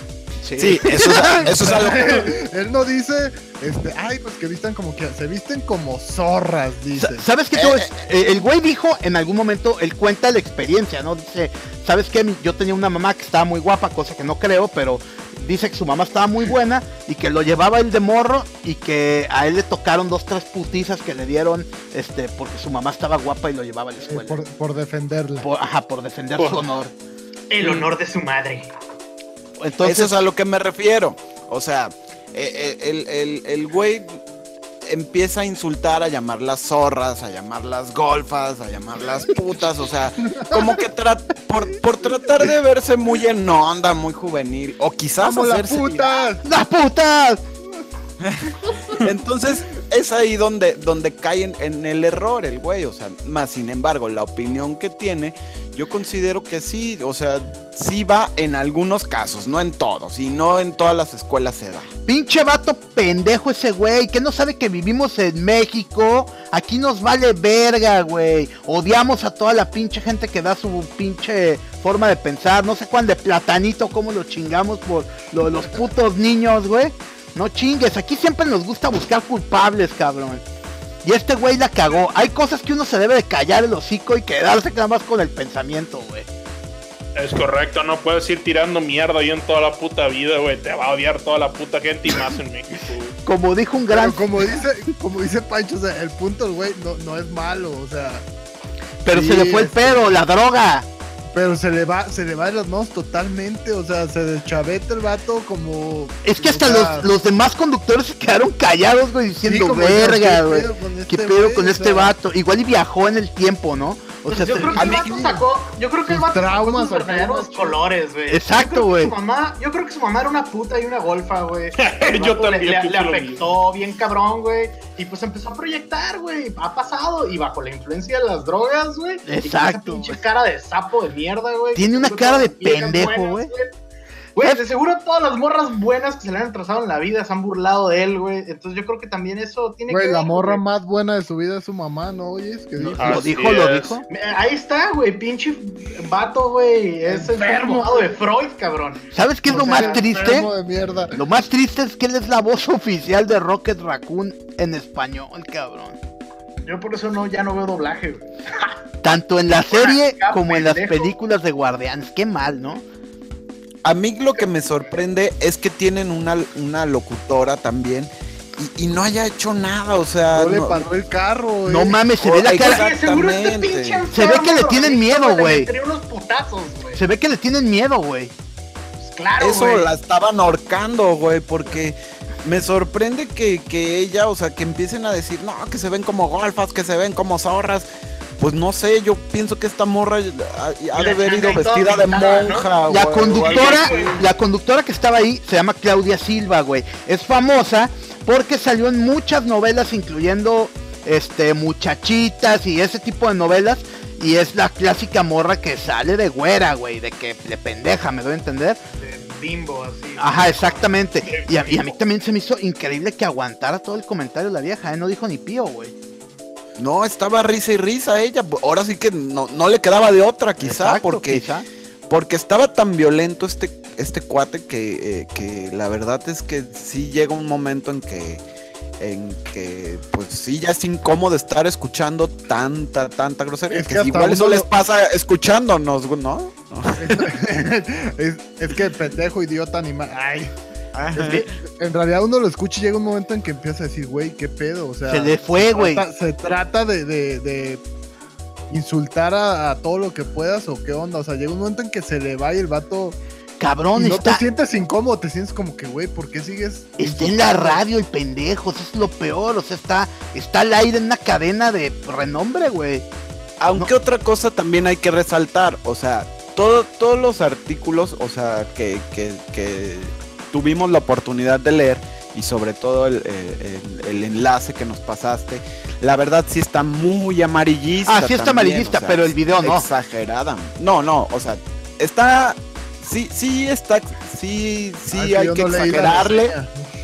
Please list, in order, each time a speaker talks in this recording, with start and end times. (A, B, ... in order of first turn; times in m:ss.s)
0:00.4-0:01.5 A
0:00.6-0:02.3 B
0:01.0-0:07.3 C
0:07.0-0:24.4 A
0:07.6-0:07.9 B
0:24.0-0:25.5 C
0:25.4-0:26.9 A
0:26.4-0:26.6 D
0:27.5-0:28.7 E
0:27.6-0:27.9 B
0:29.6-0:30.2 A
0:29.8-0:34.2 B
0:34.8-0:46.1 B
0:40.3-0:40.8 C
0:45.2-0:46.4 C
0:46.4-0:47.4 A
0:48.2-1:01.9 B
1:02.1-1:20.4 A
1:21.0-1:26.3 A
1:27.2-1:33.2 D
1:33.2-1:34.4 A
1:33.9-1:38.3 C
1:39.0-1:40.9 A
1:39.1-1:40.1 C
1:41.3-1:47.1 C
1:46.2-1:54.8 A
1:49.4-1:52.2 C
1:54.3-2:13.7 E
1:54.8-1:55.3 B
1:54.8-1:55.4 C
1:56.1-1:57.8 C
1:58.3-1:59.2 A
2:01.8-2:03.5 D
2:09.3-2:10.2 A
2:11.8-2:13.5 A
2:14.4-2:20.6 E
2:19.9-2:23.2 C
2:22.8-2:24.1 A
2:22.9-2:24.0 D
2:24.1-2:30.0 E
2:27.1-2:28.0 C
2:29.1-2:30.5 A
2:29.5-2:31.2 C
2:31.1-2:36.0 A
2:36.6-2:38.7 E
2:39.0-2:42.8 A
2:39.6-2:41.1 E
2:43.8-2:50.8 B
2:50.3-2:52.0 C
2:51.7-2:52.9 A
2:52.2-2:54.1 B
2:52.5-2:57.0 E
2:54.1-2:55.7 A
2:57.0-2:58.3 A
2:59.0-2:59.9 E
2:59.4-3:07.9 B
3:08.4-3:13.9 B
3:10.9-3:14.3 E
3:12.9-3:28.8 A
3:28.9-3:31.9 E
3:30.2-3:35.9 A
3:36.8-3:41.5 B
3:40.6-3:41.6 A
3:42.1-3:48.4 B
3:49.0-3:57.3 B
3:53.7-3:54.7 C
3:57.0-4:00.5 C
4:01.0-4:01.5 B
4:01.2-4:07.8 C
4:05.1-4:06.1 A
4:08.7-4:13.2 C
4:13.6-4:14.4 A
4:14.0-4:17.8 C
4:17.0-4:23.1 A
4:23.6-4:46.6 B
4:38.0-4:39.9 A
4:45.1-4:46.7 C